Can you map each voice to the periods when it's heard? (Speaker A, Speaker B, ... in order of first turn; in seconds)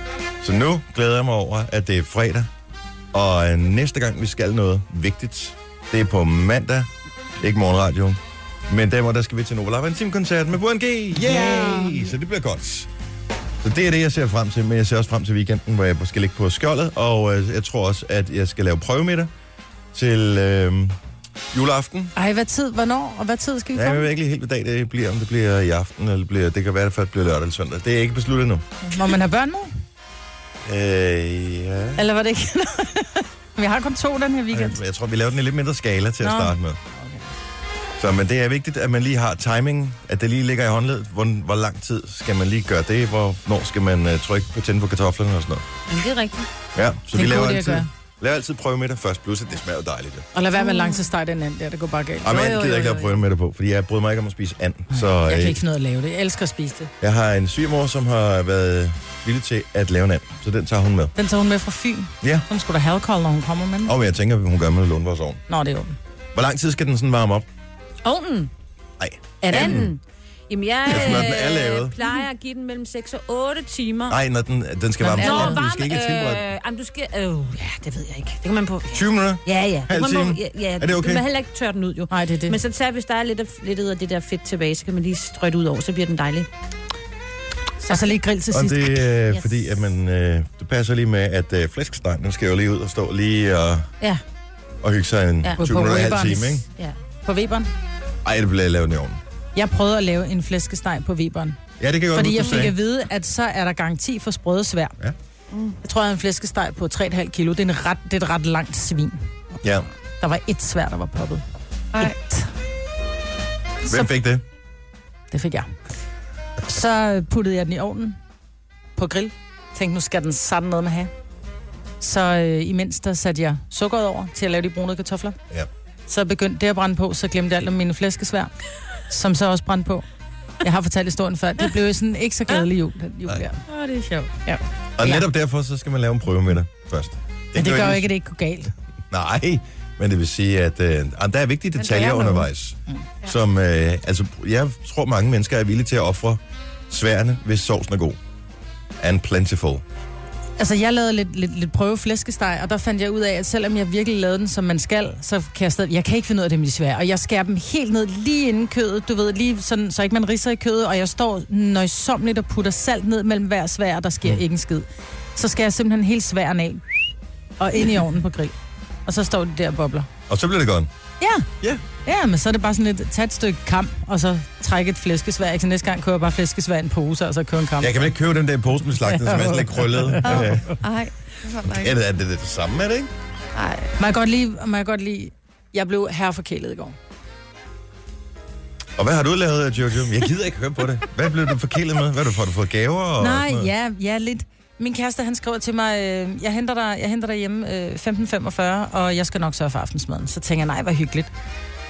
Speaker A: 0.4-2.5, 3.1-6.9, 7.4-12.9, 13.6-19.3, 19.9-21.0, 21.5-22.1, 23.7-28.6, 30.6-32.0, 34.5-36.8, 38.0-45.6, 46.7-50.3, 52.2-55.6, 57.0-61.1, 63.9-65.4, 66.3-67.5, 69.0-69.9, 70.8-72.0, 74.1-76.5, 78.9-81.2, 88.5-93.9, 94.8-96.7, 98.2-99.2, 101.8-102.8, 109.6-109.9, 113.8-114.4, 135.0-138.1, 139.1-148.2, 149.0-149.8, 170.3-170.9, 177.8-180.8, 181.7-183.1, 189.0-193.7
Speaker B: 11.2-12.1, 22.1-24.1, 28.8-29.7, 31.9-34.8, 36.2-37.3, 47.1-47.9, 50.3-52.6, 54.9-56.9, 61.1-63.9, 65.5-66.0, 69.4-69.9, 75.0-75.6, 82.1-82.6, 87.8-89.1, 95.6-96.6, 97.2-97.7, 99.5-101.6, 102.1-104.9, 105.8-109.2, 110.2-111.4, 112.0-112.5, 115.3-115.8, 116.6-118.2, 119.0-121.1, 122.0-125.4, 126.1-128.5, 129.1-130.0, 130.6-133.6, 134.4-135.2, 137.6-138.7, 150.6-168.5, 169.1-170.1, 171.2-171.5, 172.0-178.1, 179.0-180.4, 184.0-186.9, 193.2-201.3
Speaker C: 45.9-46.5, 52.3-53.2, 68.0-68.5, 69.5-74.2, 75.2-86.5, 87.8-88.2, 133.7-134.3
Speaker D: 105.5-105.8, 141.9-142.4, 180.2-181.9, 183.5-183.9